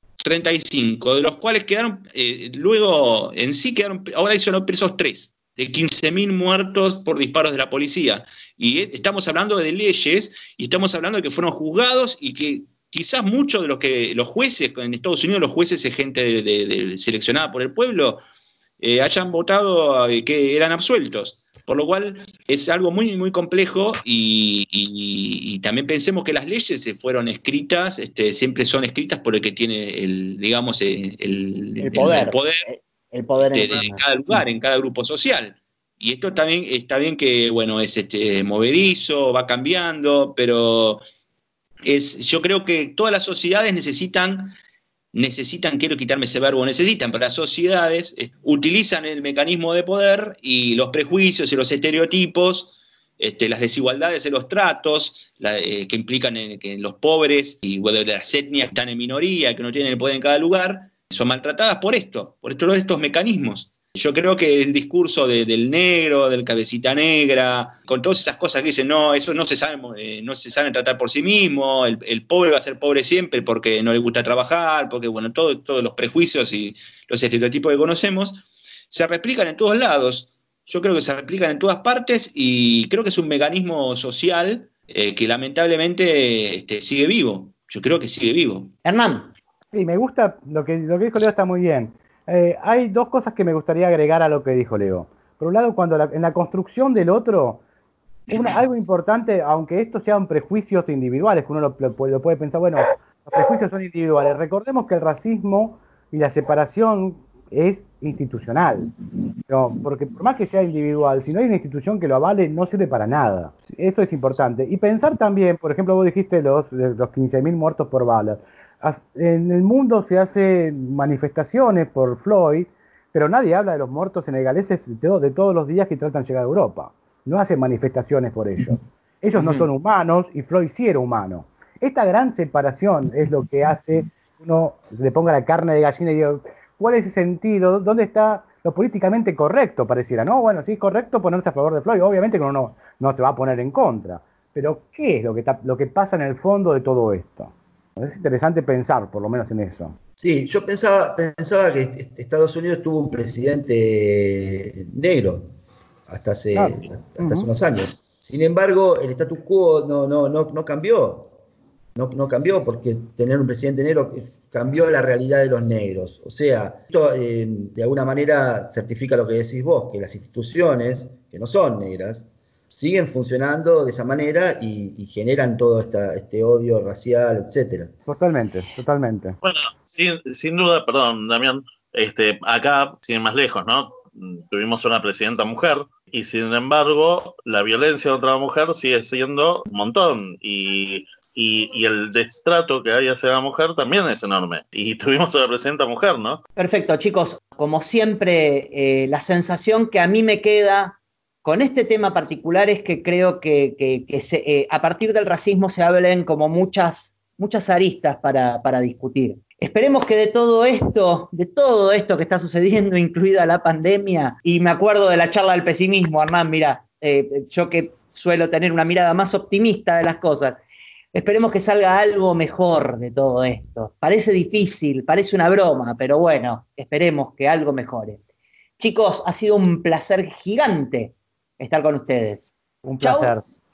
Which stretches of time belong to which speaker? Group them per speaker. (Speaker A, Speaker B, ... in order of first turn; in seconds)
Speaker A: 0.2-18.2, 18.8-32.6, 33.4-41.0, 41.8-44.5, 45.1-88.7
Speaker B: 31.8-34.4, 88.8-89.3, 129.4-129.7, 196.6-220.6, 221.1-228.2, 228.8-233.3
Speaker C: 89.7-97.6, 98.3-108.9, 109.5-150.0, 156.5-157.5, 178.1-179.4, 232.8-233.4
Speaker D: 150.2-155.5, 156.1-161.3, 161.9-177.9
Speaker E: 179.4-196.4